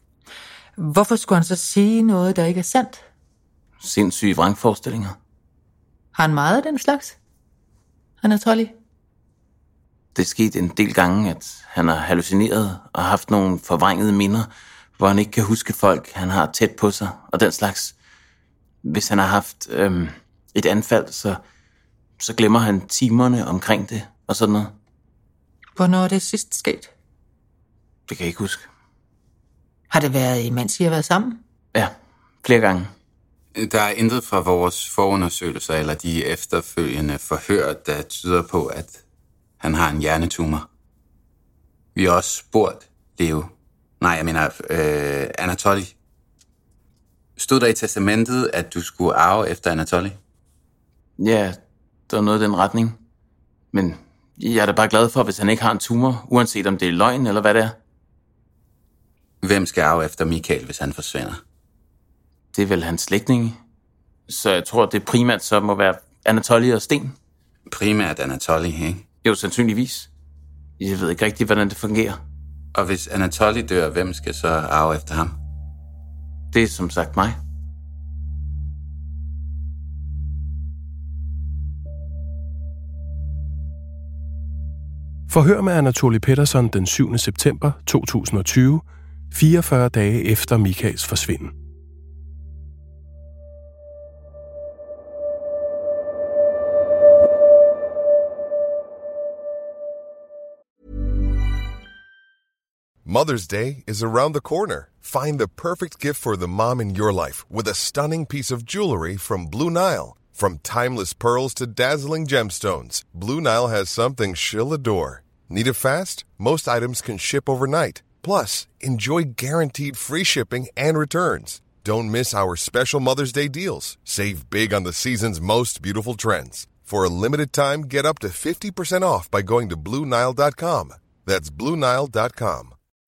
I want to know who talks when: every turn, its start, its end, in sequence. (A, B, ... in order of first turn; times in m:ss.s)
0:00.8-0:03.0 A
0:03.8-0:05.2 B
0:06.1-0:07.2 A
0:08.2-0:08.7 A
0:10.1-0:17.9 B
0:18.8-0:21.4 B
0:22.2-0:24.7 B
0:25.8-0:26.9 A
0:28.1-0:28.6 B
0:29.9-0:31.4 A
0:31.7-0:32.9 B
0:33.5-0:39.0 C
0:39.6-0:40.7 C
0:41.9-0:45.9 C
0:47.4-0:50.2 C
0:51.2-0:51.6 B
0:52.1-0:53.0 B
0:53.7-0:57.7 B
0:59.4-1:01.4 C
1:02.5-1:03.6 B
1:04.3-1:07.2 B
1:07.7-1:09.0 C
1:09.2-1:10.1 B
1:10.8-1:12.2 B
1:12.7-1:15.4 C
1:16.5-1:17.4 B
1:25.3-1:31.5 D
1:43.0-2:12.7 E